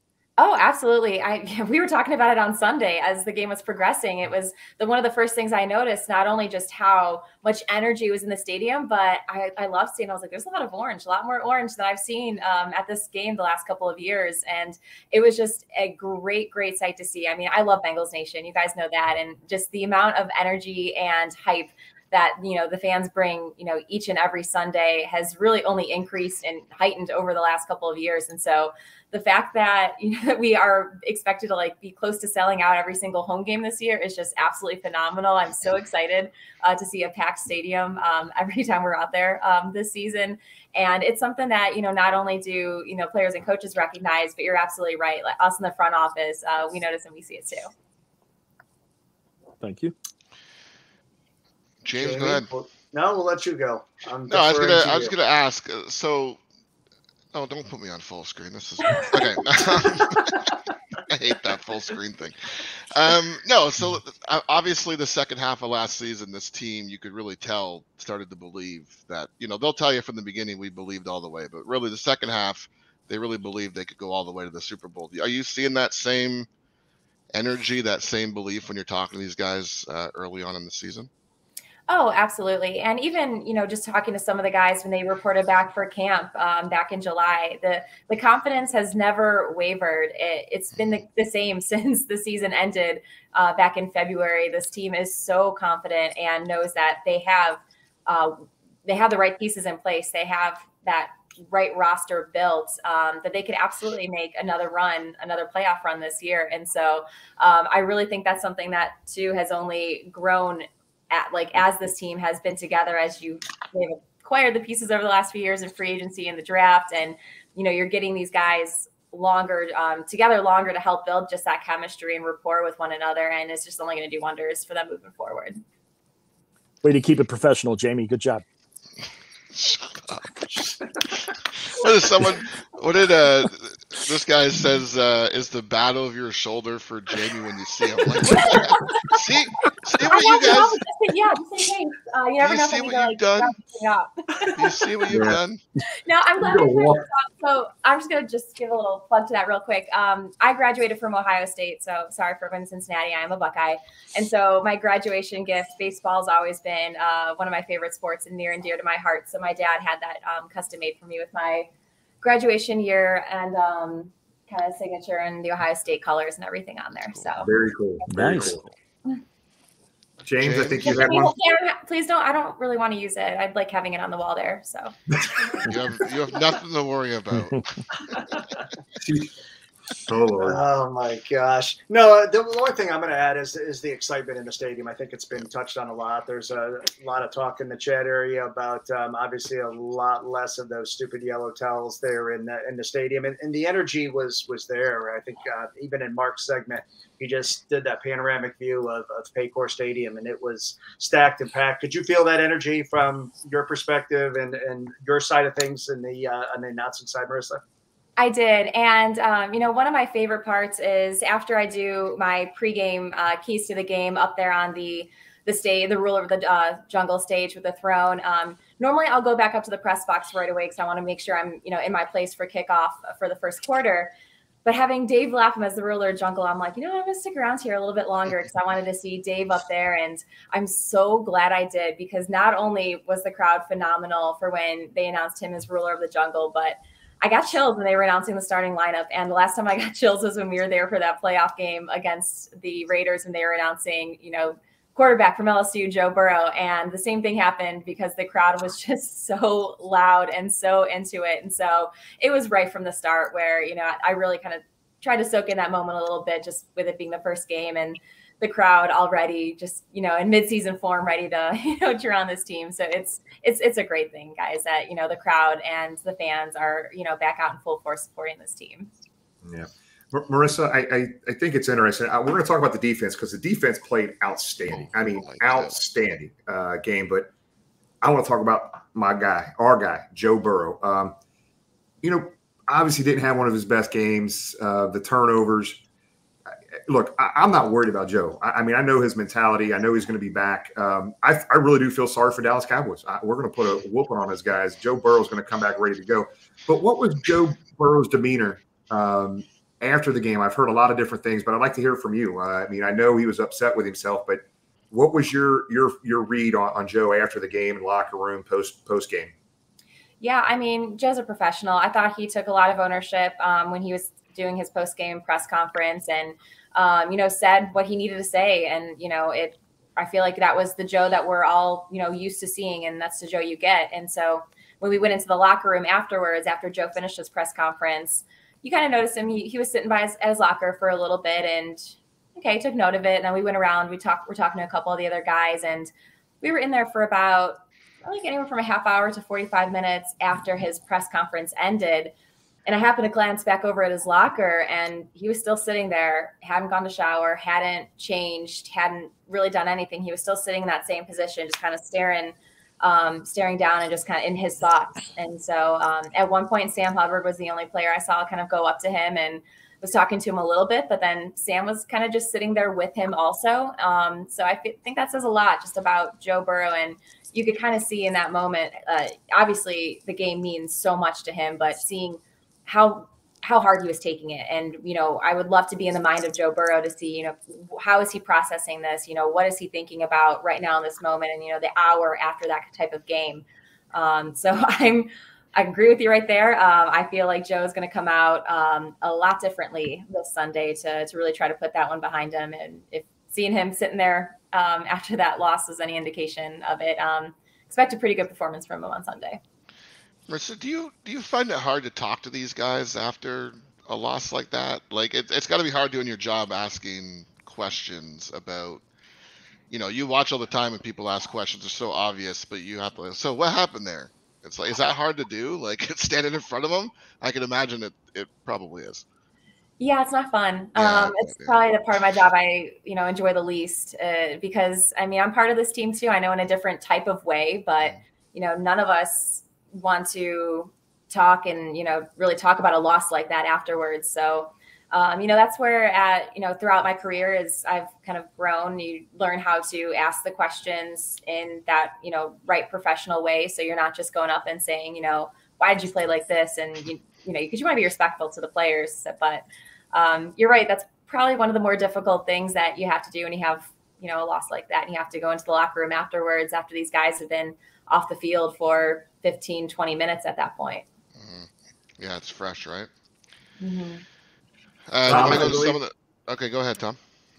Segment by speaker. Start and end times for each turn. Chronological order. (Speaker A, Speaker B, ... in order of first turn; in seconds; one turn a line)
Speaker A: 0.4-47.7
Speaker B: 49.6-49.9
Speaker C: 51.8-52.5
Speaker D: 51.9-55.1
Speaker C: 54.3-56.4
Speaker C: 57.3-60.4
Speaker C: 61.1-62.4
Speaker C: 62.9-76.5
Speaker C: 77.3-81.1
Speaker A: 81.9-125.6
Speaker B: 126.8-128.4
Speaker C: 129.5-140.8
Speaker A: 138.3-139.2
Speaker A: 140.0-144.9
Speaker C: 142.4-143.6
Speaker C: 144.6-145.6
Speaker E: 145.1-145.4
Speaker A: 146.0-161.7
Speaker E: 146.4-147.0
Speaker A: 162.2-167.5
Speaker C: 167.0-167.4
Speaker E: 167.4-168.6
Speaker B: 168.1-168.6
Speaker E: 170.2-171.3
Speaker C: 170.4-171.1
Speaker A: 170.8-174.9
Speaker C: 175.6-177.6
Speaker E: 179.0-179.3
Speaker E: 180.0-180.6
Speaker D: 180.4-207.6
Speaker A: 208.2-224.1
Speaker A: 224.6-268.9
Speaker E: 269.4-277.3
Speaker C: 274.7-275.7
Speaker E: 278.0-281.1
Speaker E: 282.0-285.8
Speaker E: 286.9-309.3
Speaker A: 310.2-335.9
Speaker A: 336.4-342.1
Speaker A: 342.6-399.4
Speaker C: 400.3-408.8
Speaker C: 409.7-419.0
Speaker A: 419.8-460.8
Speaker C: 420.7-421.6
Speaker C: 461.2-462.9
Speaker A: 463.6-464.0
Speaker C: 464.9-467.0
Speaker E: 465.0-465.8